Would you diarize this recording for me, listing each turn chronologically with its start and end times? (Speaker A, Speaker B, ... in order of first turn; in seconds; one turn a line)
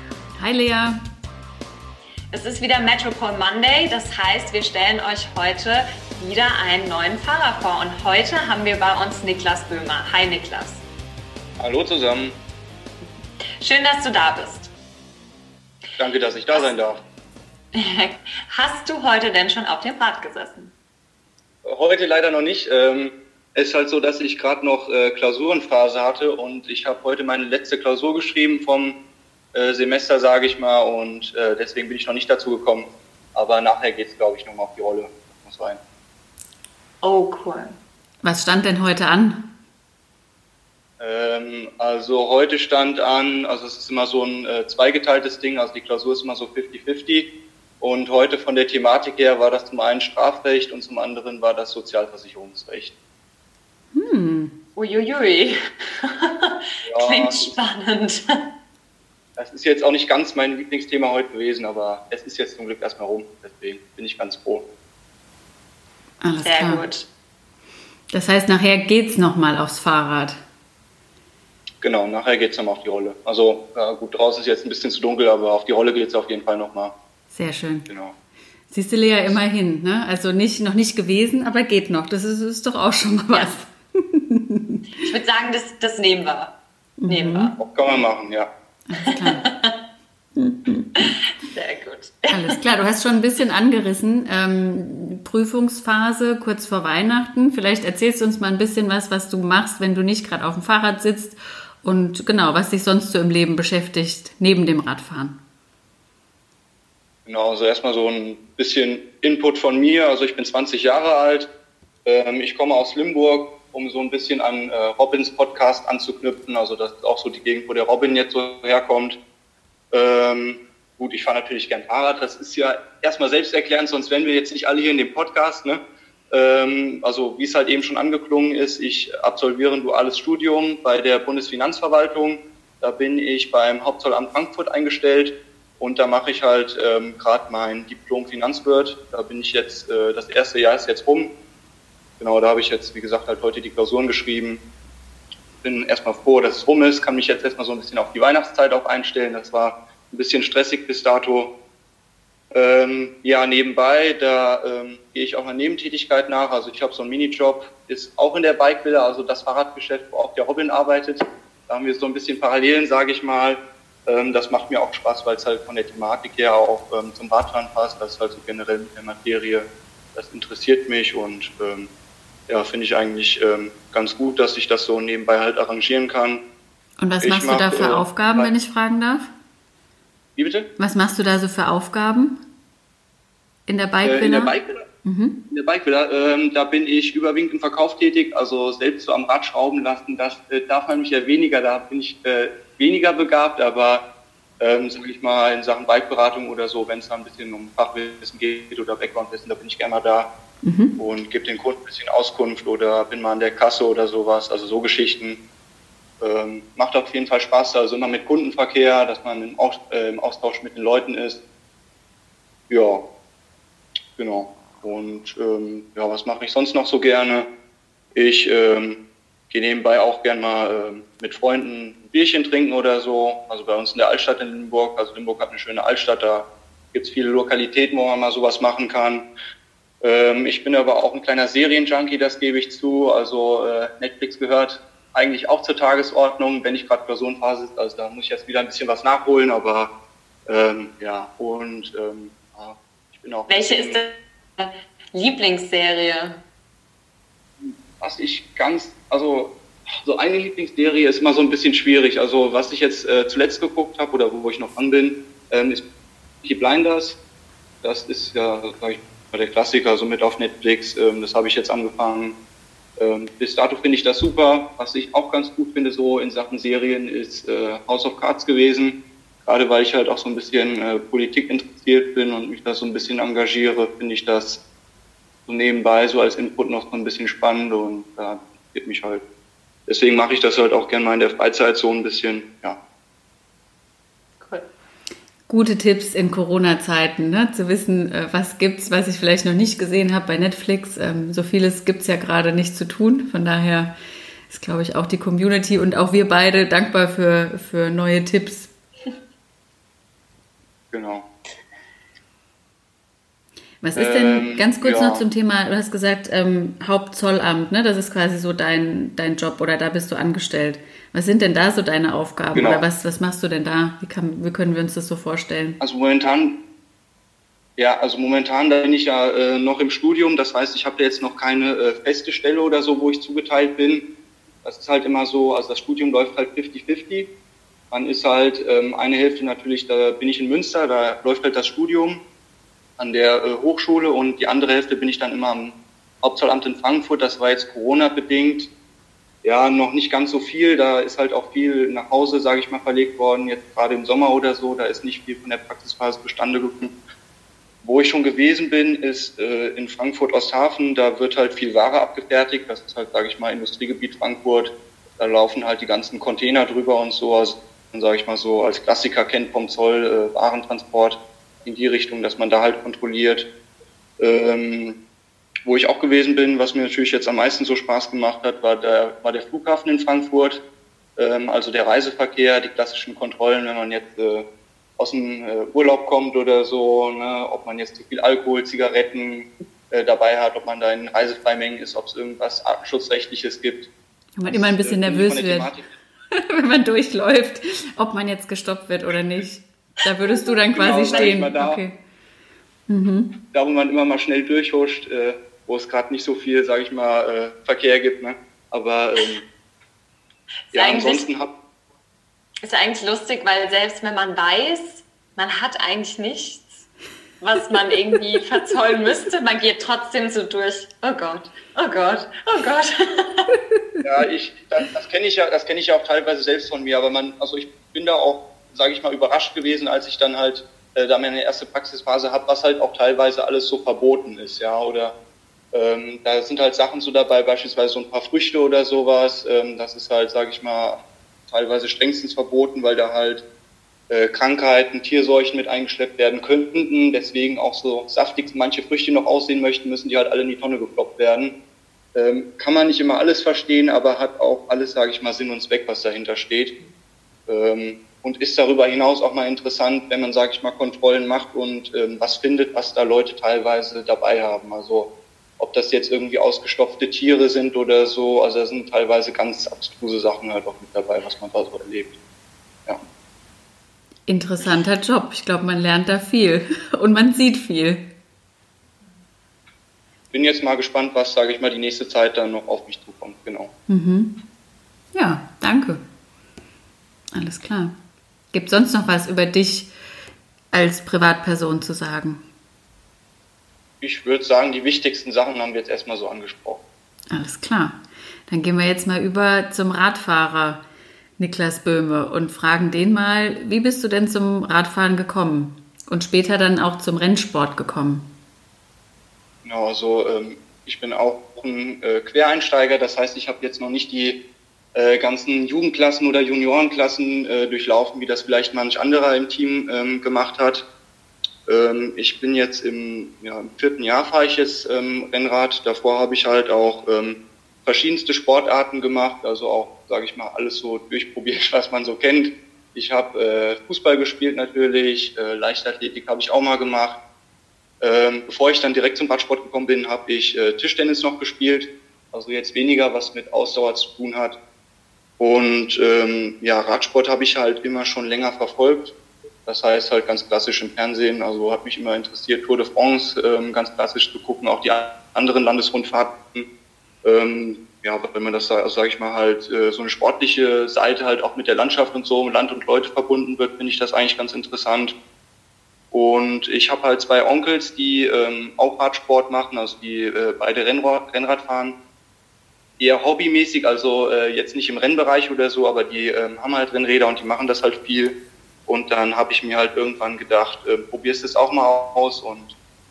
Speaker A: 0.4-1.0
Speaker B: 2.3-10.8
Speaker C: 11.6-12.4
Speaker B: 13.6-14.7
Speaker C: 16.0-17.0
Speaker B: 17.7-20.7
Speaker C: 21.6-29.0
Speaker C: 29.5-35.8
Speaker B: 37.0-37.8
Speaker A: 38.2-39.5
Speaker C: 41.0-47.3
Speaker C: 47.8-52.9
Speaker A: 53.9-54.5
Speaker B: 54.8-58.2
Speaker C: 56.8-57.5
Speaker C: 59.4-64.6
Speaker A: 66.2-66.8
Speaker B: 66.4-67.1
Speaker A: 68.1-70.4
Speaker C: 71.8-76.9
Speaker A: 77.3-77.9
Speaker C: 77.9-78.1
Speaker A: 78.7-84.8
Speaker B: 85.0-86.5
Speaker A: 87.0-87.5
Speaker B: 87.1-87.6
Speaker C: 87.6-88.5
Speaker A: 88.9-89.4
Speaker B: 89.0-89.8
Speaker A: 90.3-91.1
Speaker B: 91.4-92.3
Speaker A: 92.3-105.4
Speaker C: 107.2-111.5
Speaker C: 112.0-119.2
Speaker C: 119.9-141.3
Speaker C: 142.2-144.6
Speaker C: 145.6-151.5
Speaker C: 152.5-171.9
Speaker C: 172.5-176.4
Speaker A: 177.0-179.3
Speaker C: 177.2-178.5
Speaker C: 180.3-180.7
Speaker A: 180.8-182.4
Speaker A: 183.7-185.4
Speaker C: 184.0-184.8
Speaker C: 185.5-194.0
Speaker C: 194.6-200.3
Speaker A: 200.6-200.9
Speaker C: 201.0-205.4
Speaker C: 206.2-211.4
Speaker C: 212.7-213.0
Speaker C: 214.2-217.5
Speaker C: 218.1-229.3
Speaker C: 230.0-239.9
Speaker C: 240.5-244.0
Speaker B: 243.5-246.4
Speaker C: 247.6-255.8
Speaker C: 256.4-257.2
Speaker C: 257.8-262.4
Speaker C: 263.0-274.6
Speaker C: 275.5-279.2
Speaker C: 279.9-282.8
Speaker B: 284.4-284.7
Speaker A: 285.5-293.9
Speaker A: 294.5-298.7
Speaker C: 300.9-301.2
Speaker A: 303.8-315.8
Speaker C: 303.9-305.2
Speaker C: 312.5-312.9
Speaker C: 315.8-316.6
Speaker C: 317.8-324.1
Speaker C: 324.6-327.3
Speaker C: 327.9-332.2
Speaker C: 333.0-338.7
Speaker C: 339.4-346.9
Speaker C: 347.8-363.5
Speaker C: 364.2-365.0
Speaker C: 365.6-370.6
Speaker C: 371.2-374.4
Speaker C: 375.0-383.9
Speaker A: 384.4-385.7
Speaker C: 384.5-385.9
Speaker A: 386.3-392.0
Speaker B: 390.3-391.4
Speaker C: 390.7-391.8
Speaker A: 392.9-393.3
Speaker C: 393.5-399.4
Speaker B: 400.7-401.3
Speaker C: 400.7-401.5
Speaker B: 402.6-406.9
Speaker B: 407.4-413.5
Speaker C: 414.0-425.1
Speaker C: 425.7-433.4
Speaker C: 434.1-441.5
Speaker C: 442.1-446.7
Speaker C: 447.5-462.1
Speaker A: 464.3-468.1
Speaker C: 470.3-473.7
Speaker A: 473.9-474.4
Speaker A: 475.1-476.0
Speaker A: 477.3-477.9
Speaker A: 478.5-479.9
Speaker A: 480.7-482.4
Speaker C: 484.0-486.8
Speaker A: 487.3-490.8
Speaker A: 491.4-498.3
Speaker C: 499.6-504.4
Speaker C: 504.9-510.8
Speaker C: 511.6-527.2
Speaker C: 528.0-534.6
Speaker C: 535.4-539.1
Speaker C: 539.6-546.7
Speaker C: 547.2-555.1
Speaker C: 556.1-562.0
Speaker C: 563.0-568.3
Speaker C: 568.9-572.7